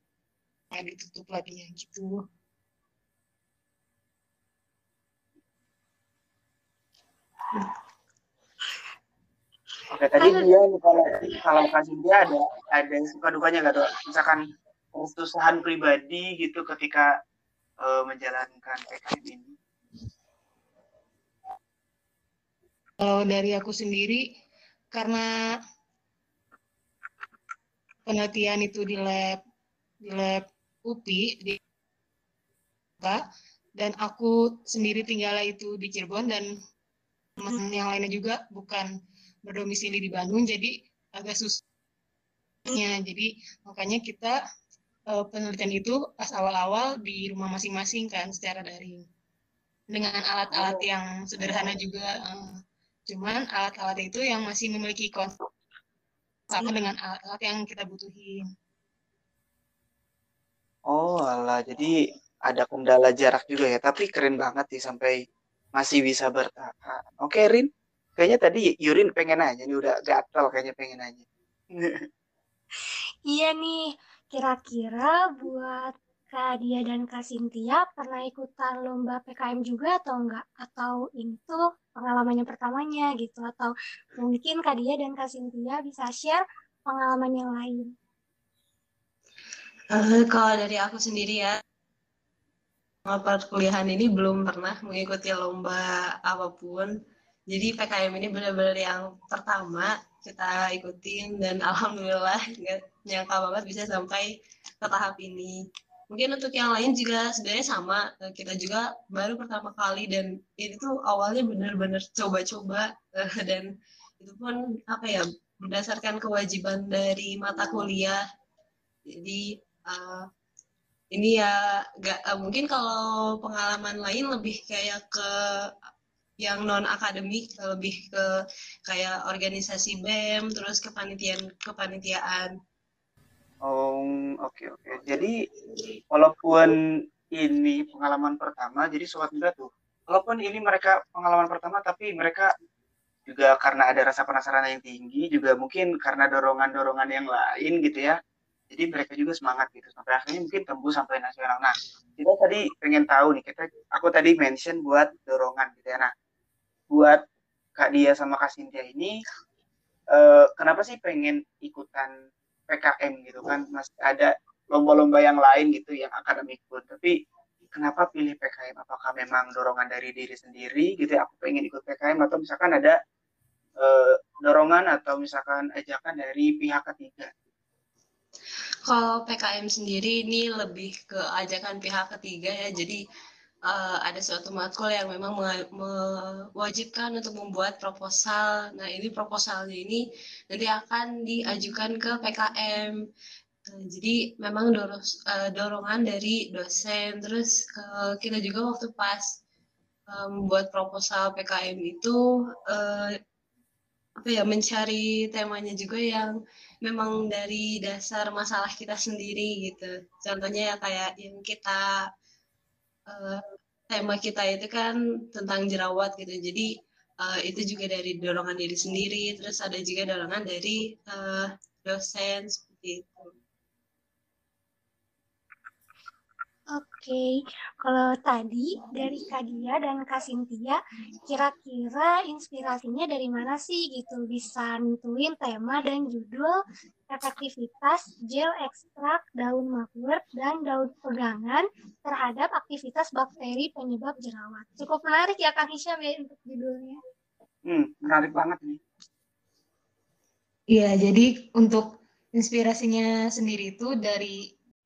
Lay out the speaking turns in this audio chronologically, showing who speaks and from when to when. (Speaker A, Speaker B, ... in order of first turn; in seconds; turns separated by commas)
Speaker A: 0.7-2.2, Speaker B: 9.9-14.4, Speaker B: 14.9-17.1, Speaker B: 17.8-19.5, Speaker A: 23.0-24.2, Speaker A: 24.9-25.3, Speaker A: 28.1-29.4, Speaker A: 30.0-31.6, Speaker A: 33.8-36.5, Speaker A: 37.4-38.9, Speaker A: 39.4-41.6, Speaker A: 42.7-44.4, Speaker A: 45.1-49.0, Speaker A: 49.9-52.5, Speaker A: 53.1-55.4, Speaker A: 56.5-58.5, Speaker B: 60.9-61.9, Speaker B: 62.5-65.2, Speaker B: 65.8-72.0, Speaker C: 73.3-87.9, Speaker D: 89.9-91.5, Speaker D: 93.1-96.9, Speaker D: 97.5-105.6, Speaker D: 106.1-113.7, Speaker D: 114.2-118.2, Speaker D: 119.1-120.2, Speaker D: 121.1-125.6, Speaker D: 126.4-128.3, Speaker D: 128.9-132.5, Speaker B: 133.7-135.3, Speaker B: 136.1-136.8, Speaker B: 137.4-142.5, Speaker B: 143.3-148.2, Speaker B: 148.7-156.1, Speaker B: 156.9-157.2, Speaker B: 157.8-159.1, Speaker B: 160.1-162.1, Speaker B: 162.7-167.1, Speaker B: 167.7-172.9, Speaker B: 173.8-177.3, Speaker D: 178.9-183.0, Speaker D: 183.7-192.9, Speaker D: 193.7-199.3, Speaker D: 200.1-203.1, Speaker D: 204.2-211.9, Speaker D: 213.1-216.7, Speaker D: 217.2-223.3, Speaker C: 226.7-227.3, Speaker C: 227.8-236.6, Speaker C: 237.1-247.0, Speaker B: 247.7-248.8, Speaker A: 250.7-254.4